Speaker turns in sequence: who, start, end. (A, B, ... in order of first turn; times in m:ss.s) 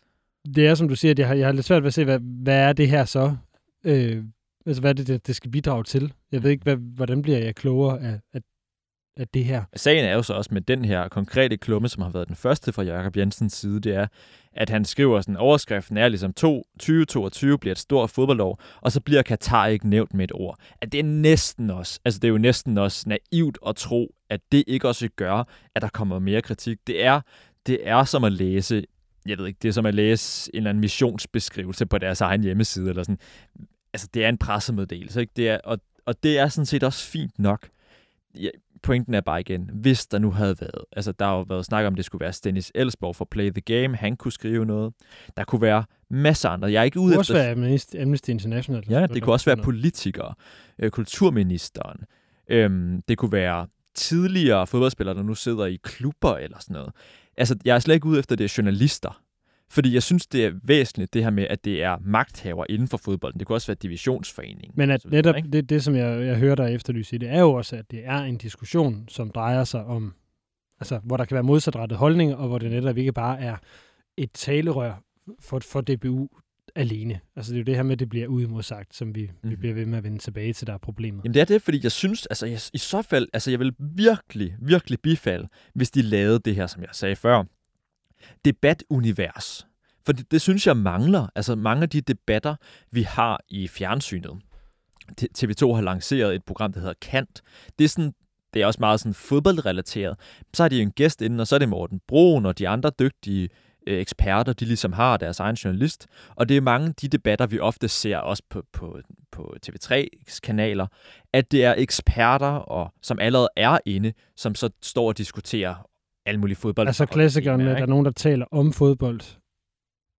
0:00.4-0:08.5 A
0:09.2-0:09.7 A
0:09.7-0:33.2 B
0:33.9-0:37.7 B
0:38.3-0:47.4 B
0:47.1-0:49.7 A
0:48.9-0:59.2 B
0:59.7-1:05.4 B
1:04.8-1:10.2 A
1:10.8-1:13.6 A
1:14.2-1:21.2 A
1:21.2-1:27.5 B
1:28.4-1:34.4 B
1:35.1-1:57.9 B
1:56.8-1:59.4 A